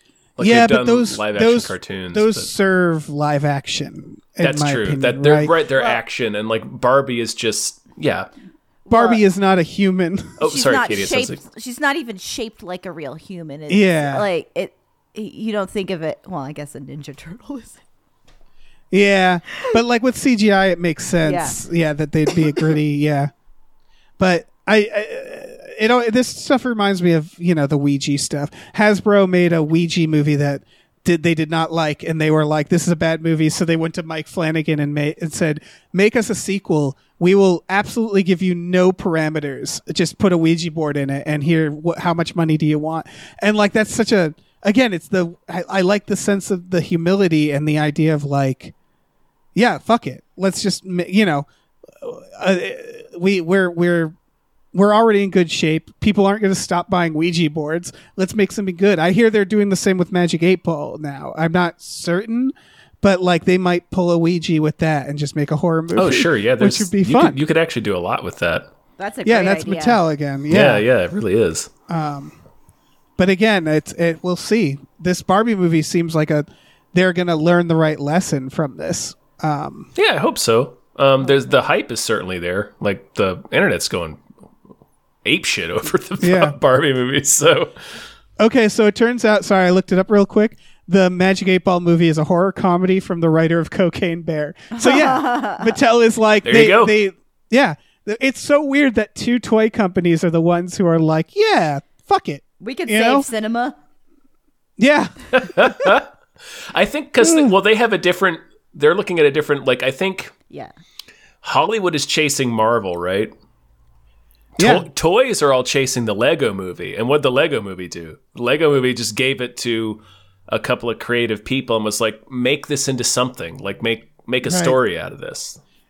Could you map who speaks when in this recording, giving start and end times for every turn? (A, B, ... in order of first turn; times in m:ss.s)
0:00.4-0:02.5 A
0:00.4-0:05.5 B
0:04.4-0:08.3 A
0:05.7-0:06.0 C
0:08.8-0:09.2 C
0:08.9-0:10.4 B
0:10.4-0:11.4 A
0:10.4-0:17.8 C
0:13.7-0:14.2 B
0:18.9-0:23.3 B
0:21.2-0:21.6 C
0:24.2-0:48.7 B
0:49.5-0:51.5 B
0:52.0-0:54.1 B
0:54.7-1:07.4 B
1:05.9-1:08.7 A
1:09.0-1:10.0 C
1:09.2-1:10.8 B
1:10.5-1:11.7 A
1:11.9-1:12.3 B
1:13.2-1:19.9 B
1:20.0-1:24.2 A
1:21.3-1:21.5 C
1:25.2-1:27.7 A
1:26.2-1:26.6 B
1:28.4-1:43.3 B
1:34.7-1:35.8 C
1:36.4-1:37.0 A
1:42.6-1:43.8 C
1:44.8-1:45.9 B
1:45.3-1:46.1 A
1:46.7-1:50.3 A
1:47.2-1:47.5 B
1:51.4-1:53.3 A
1:54.6-2:05.6 A
1:54.6-1:54.8 B
2:04.4-2:04.8 B